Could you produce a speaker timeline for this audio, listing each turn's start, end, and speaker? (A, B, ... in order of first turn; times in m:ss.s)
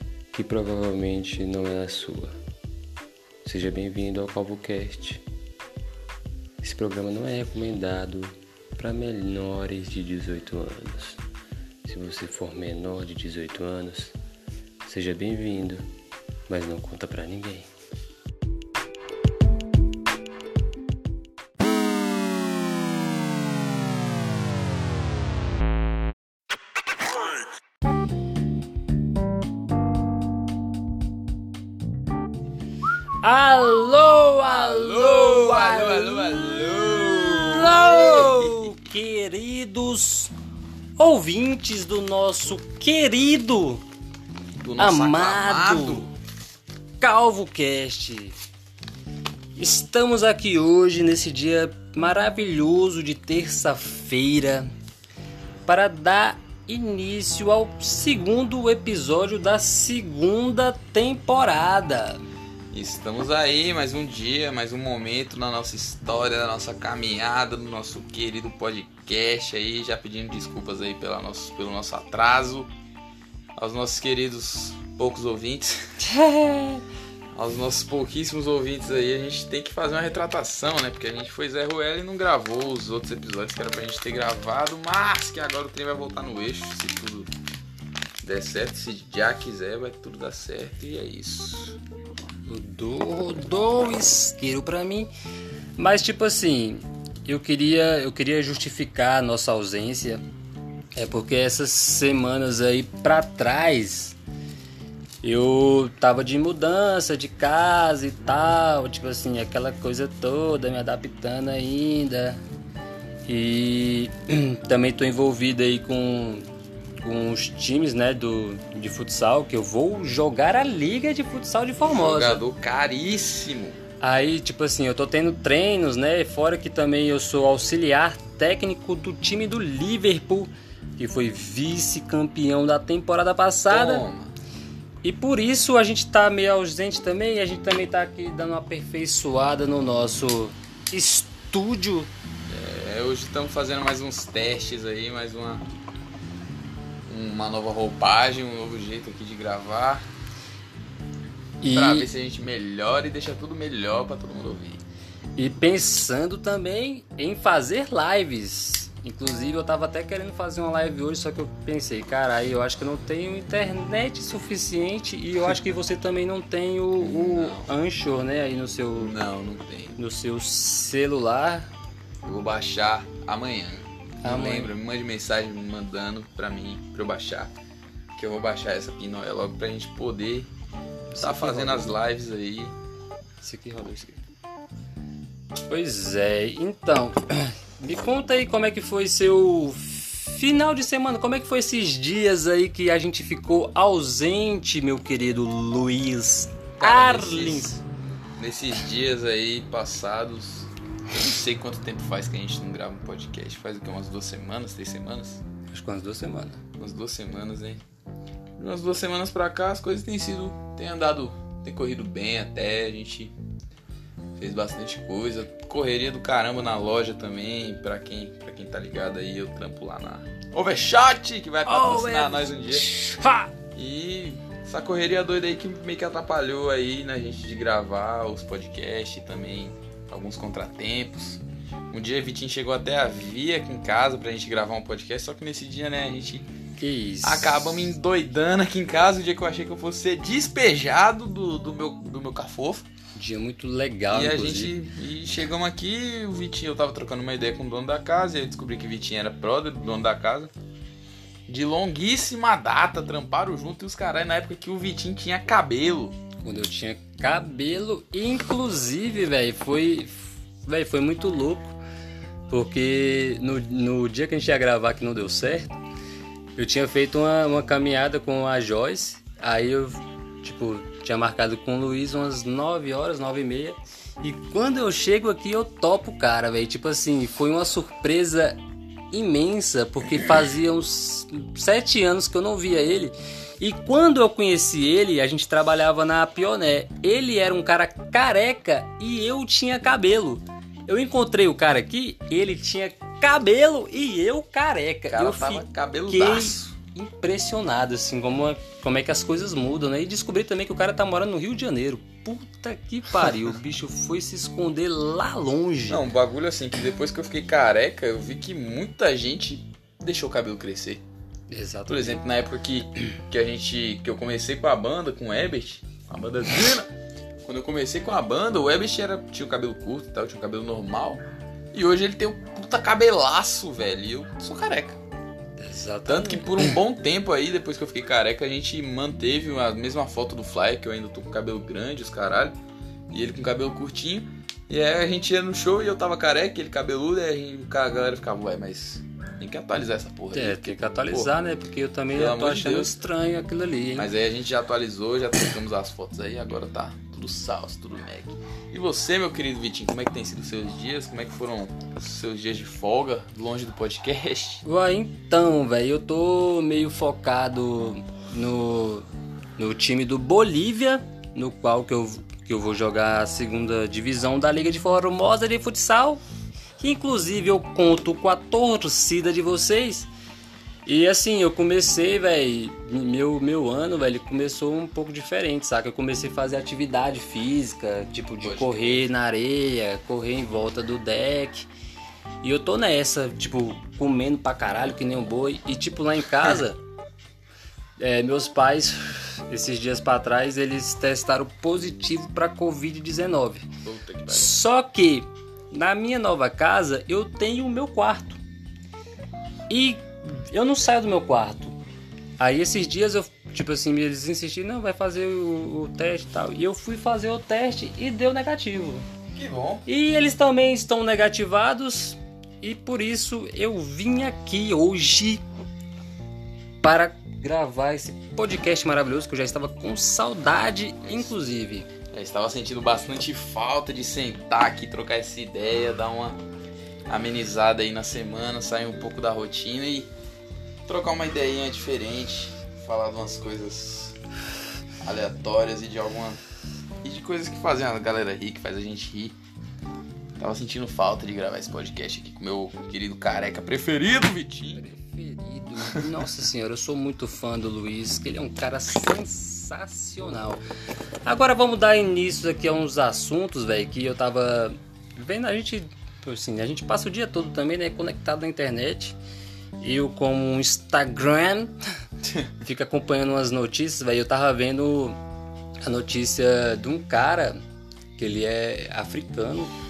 0:00.3-0:02.3 A
0:03.4-0:05.2 A
0:06.6-0:11.2 A
0:11.8-0:14.1 A
0:14.8-0:15.9 A
0:16.5-0:17.7 A
0:33.2-0:40.3 B
0:34.4-0:38.7 C
0:41.0-0:43.8 B
0:44.6-0:46.1 C
0:44.8-0:46.1 B
0:47.0-0:48.4 B
0:49.6-0:54.7 B
0:55.6-1:02.2 B
1:02.7-1:12.7 C
1:13.6-1:15.9 C
1:16.0-1:16.8 B
1:17.3-1:27.3 C
1:28.2-1:31.8 C
1:32.5-1:35.1 B
1:35.8-1:40.2 B
1:40.9-1:44.2 B
1:45.2-1:52.4 B
1:53.3-1:56.5 B
1:57.0-2:02.4 B
2:01.8-2:03.8 C
2:04.0-2:14.0 B
2:13.7-2:14.4 C
2:15.0-2:22.1 B
2:22.5-2:25.6 C
2:27.1-2:30.1 C
2:31.6-2:32.1 B
2:31.7-2:34.8 C
2:35.4-2:49.2 B
2:47.0-2:47.7 C
2:49.0-2:50.0 C
2:50.0-2:51.7 B
2:52.2-2:57.5 C
2:54.2-2:54.7 B
2:58.1-3:00.5 C
3:01.1-3:02.0 B
3:01.2-3:02.7 C
3:03.4-3:04.2 B
3:05.6-3:17.8 B
3:16.8-3:17.8 C
3:18.4-3:25.4 C
3:25.7-3:26.6 B
3:26.8-3:27.8 C
3:28.6-3:33.3 C
3:34.4-3:42.9 C
3:41.6-3:43.5 B
3:43.7-3:56.5 C
3:56.8-3:57.6 B
3:57.2-4:02.8 C
4:03.1-4:04.7 B
4:04.1-4:10.5 C
4:11.5-4:16.2 C
4:16.4-4:21.8 B
4:22.5-4:25.8 B
4:26.6-4:38.6 B
4:39.1-5:06.0 B
4:55.1-4:56.7 C
5:05.9-5:11.0 C
5:11.5-5:12.2 B
5:11.9-5:16.9 C
5:17.4-5:25.0 C
5:25.6-5:26.7 B
5:26.0-5:32.6 C
5:33.1-5:41.3 C
5:40.3-5:44.1 B
5:42.1-5:43.0 C
5:44.0-5:54.6 C
5:54.6-6:06.2 B
6:06.8-6:10.1 B
6:10.8-6:21.7 B
6:18.4-6:19.0 C
6:22.4-6:26.8 B
6:28.0-6:33.6 B
6:33.8-6:34.5 C
6:34.3-6:38.4 B
6:39.7-6:41.8 B
6:42.4-6:49.1 B
6:49.3-6:49.8 C
6:49.8-6:55.4 B
6:56.8-7:01.9 B
7:01.0-7:01.3 C
7:02.1-7:06.4 C
7:07.1-7:10.1 C
7:10.8-7:14.2 C
7:15.0-7:16.4 C
7:17.0-7:19.4 C
7:20.4-7:24.8 C
7:24.7-7:30.6 B
7:31.2-7:39.2 B
7:39.8-7:41.7 B
7:42.6-7:45.2 B
7:45.8-7:47.6 B
7:48.2-7:49.7 B